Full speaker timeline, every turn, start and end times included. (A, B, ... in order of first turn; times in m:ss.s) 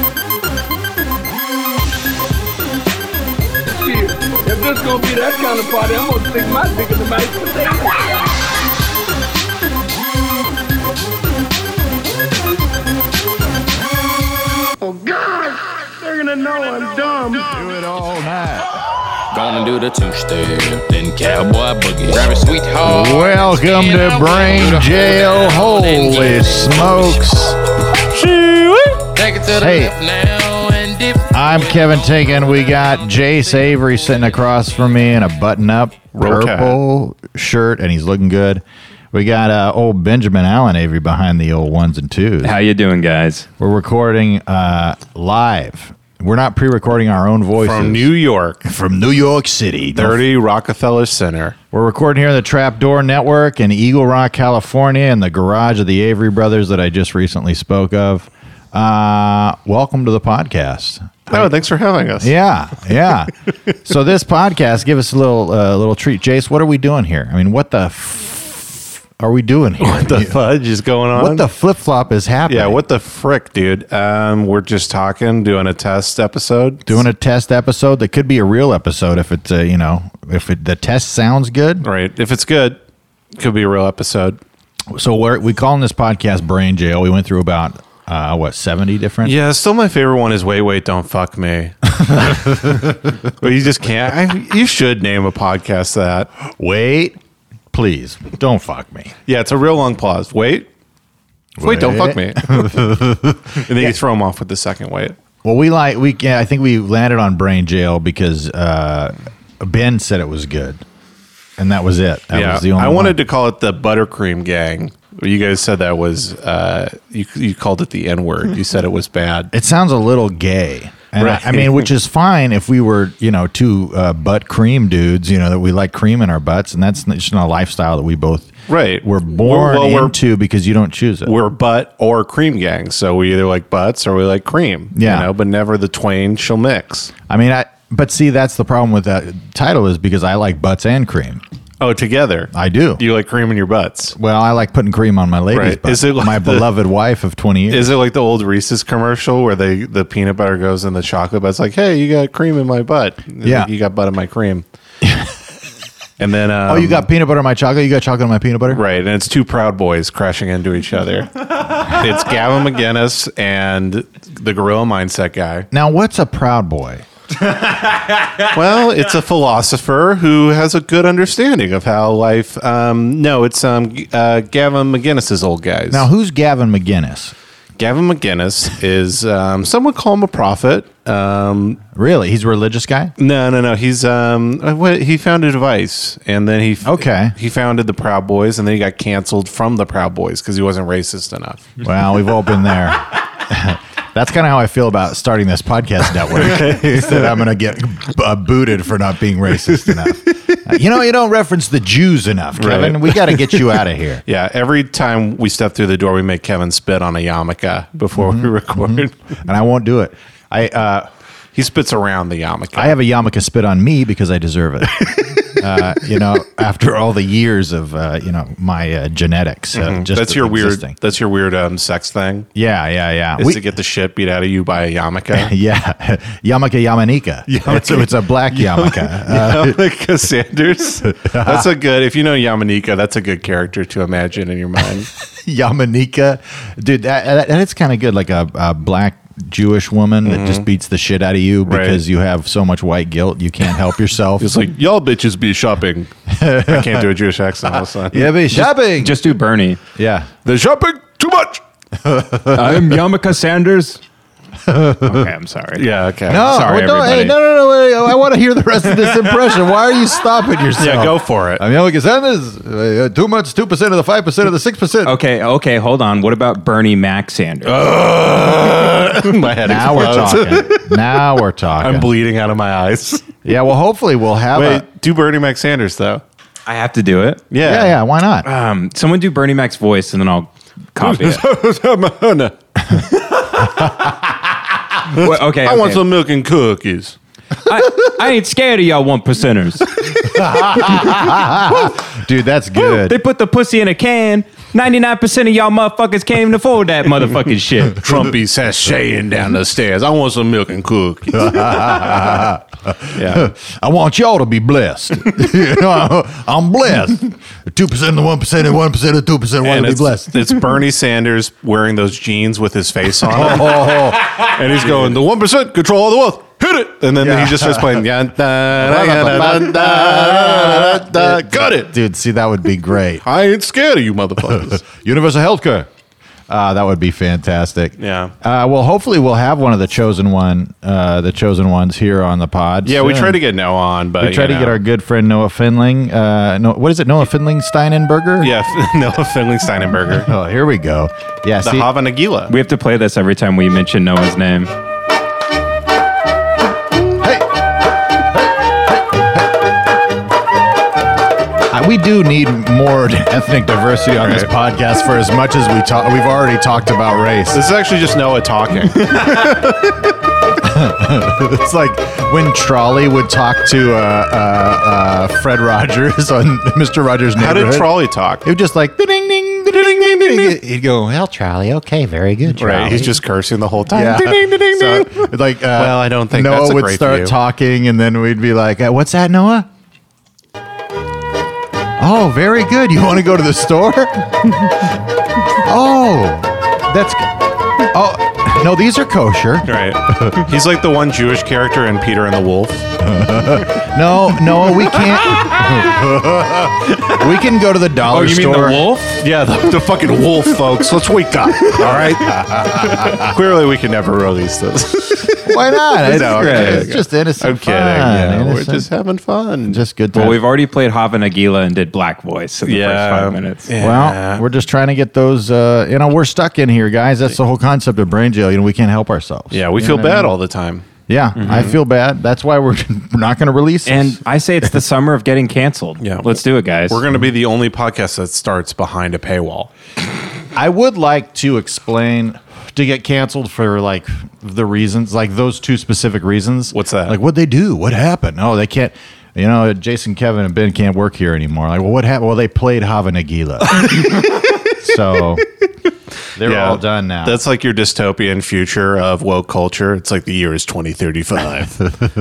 0:03.7-0:08.2 A
0:14.8-0:17.6 A
0:17.5-0:18.8 B
0:19.3-0:26.9 C
0:22.8-0:27.6 B
0:28.1-0:30.0 B
0:29.1-0:31.2 C
0:31.3-0:42.6 B
0:36.2-0:36.8 D
0:42.4-0:43.4 E
0:43.6-0:48.1 B
0:47.6-0:48.6 D
0:48.6-0:50.2 B
0:49.9-0:51.6 D
0:51.7-1:01.5 B
1:01.3-1:02.4 D
1:02.2-1:03.3 B
1:03.8-1:10.4 B
1:09.8-1:11.5 D
1:11.1-1:12.8 B
1:12.5-1:17.0 D
1:16.8-1:21.9 B
1:21.8-1:22.8 D
1:23.4-1:24.4 D
1:24.9-1:29.3 B
1:29.2-1:36.3 D
1:32.0-1:32.9 B
1:36.5-1:37.2 B
1:37.7-1:39.1 B
1:39.2-1:40.7 D
1:41.6-1:43.9 B
1:41.6-1:42.9 D
1:43.5-1:45.2 D
1:45.4-1:50.8 B
1:51.6-1:53.2 B
1:52.3-1:59.5 D
1:59.5-2:11.3 B
2:01.2-2:01.9 D
2:08.7-2:10.2 D
2:11.2-2:17.1 D
2:14.9-2:15.3 B
2:17.3-2:21.4 B
2:21.8-2:24.1 D
2:22.5-2:23.0 B
2:24.1-2:27.9 B
2:25.5-2:26.7 D
2:27.7-2:34.6 D
2:33.4-2:33.7 B
2:35.0-2:35.3 B
2:36.2-2:37.1 D
2:36.7-2:38.8 B
2:38.7-2:45.7 D
2:45.7-2:47.0 B
2:48.4-2:56.1 D
2:55.9-2:57.3 B
2:57.8-3:01.8 D
3:01.9-3:03.1 B
3:03.2-3:11.8 D
3:06.8-3:07.3 B
3:11.8-3:24.2 B
3:16.3-3:17.4 D
3:19.6-3:20.6 D
3:22.6-3:29.1 D
3:28.2-3:31.1 B
3:31.5-3:33.0 D
3:32.7-3:41.0 B
3:35.0-3:35.6 D
3:39.7-3:42.5 D
3:42.5-3:43.6 B
3:43.4-3:45.5 D
3:45.3-3:49.8 B
3:47.5-3:55.1 D
3:51.1-3:51.7 B
3:55.2-4:04.5 B
4:00.2-4:00.6 D
4:01.6-4:02.0 D
4:04.4-4:06.1 D
4:06.3-4:07.1 B
4:06.6-4:08.3 D
4:07.7-4:09.3 B
4:08.5-4:09.8 E
4:09.9-4:10.3 B
4:10.4-4:11.6 D
4:12.0-4:13.0 B
4:12.5-4:14.0 E
4:14.6-4:15.3 B
4:15.0-4:17.3 E
4:15.8-4:16.4 D
4:16.3-4:25.2 B
4:20.8-4:21.6 D
4:25.0-4:27.8 E
4:27.6-4:31.2 D
4:29.6-4:32.1 B
4:31.8-4:33.3 D
4:33.4-4:34.8 B
4:34.5-4:36.2 D
4:36.7-4:37.4 E
4:37.5-4:38.0 D
4:37.6-4:38.5 B
4:38.4-4:41.4 E
4:41.0-4:43.6 D
4:43.6-4:44.1 B
4:45.1-4:47.2 D
4:45.1-4:46.0 E
4:47.6-4:49.9 E
4:50.2-4:51.0 D
4:50.3-4:53.2 B
4:52.7-4:58.0 E
4:57.9-5:02.3 D
5:01.3-5:10.6 B
5:03.1-5:03.5 D
5:09.6-5:21.9 D
5:13.2-5:15.2 B
5:17.2-5:18.0 B
5:18.7-5:23.2 B
5:23.2-5:24.8 D
5:24.5-5:25.9 B
5:26.5-5:33.4 B
5:28.0-5:28.3 D
5:32.8-5:34.8 D
5:34.2-5:38.5 B
5:38.4-5:40.3 D
5:40.2-5:41.9 B
5:41.6-5:42.5 D
5:42.5-5:44.7 E
5:47.2-5:47.5 B
5:51.7-5:57.6 B
5:54.2-5:54.5 D
5:57.5-6:00.1 D
6:00.5-6:07.9 B
6:07.3-6:08.4 D
6:08.4-6:13.2 B
6:12.5-6:17.3 D
6:13.9-6:19.7 B
6:22.0-6:24.9 B
6:25.6-6:27.3 B
6:27.9-6:30.4 B
6:29.6-6:32.9 D
6:33.0-6:38.8 B
6:38.1-6:39.2 E
6:39.2-6:49.8 D
6:41.7-6:43.3 B
6:45.4-6:48.8 B
6:46.1-6:46.8 E
6:49.7-6:50.4 B
6:50.1-6:53.7 E
6:52.6-6:54.4 D
6:53.8-7:00.3 B
6:59.5-7:01.8 D
7:01.1-7:04.2 B
7:03.8-7:07.0 E
7:06.0-7:09.7 D
7:10.5-7:24.0 B
7:16.7-7:17.2 D
7:23.7-7:24.7 D
7:24.7-7:25.4 B
7:26.4-7:27.4 B
7:26.4-7:31.9 D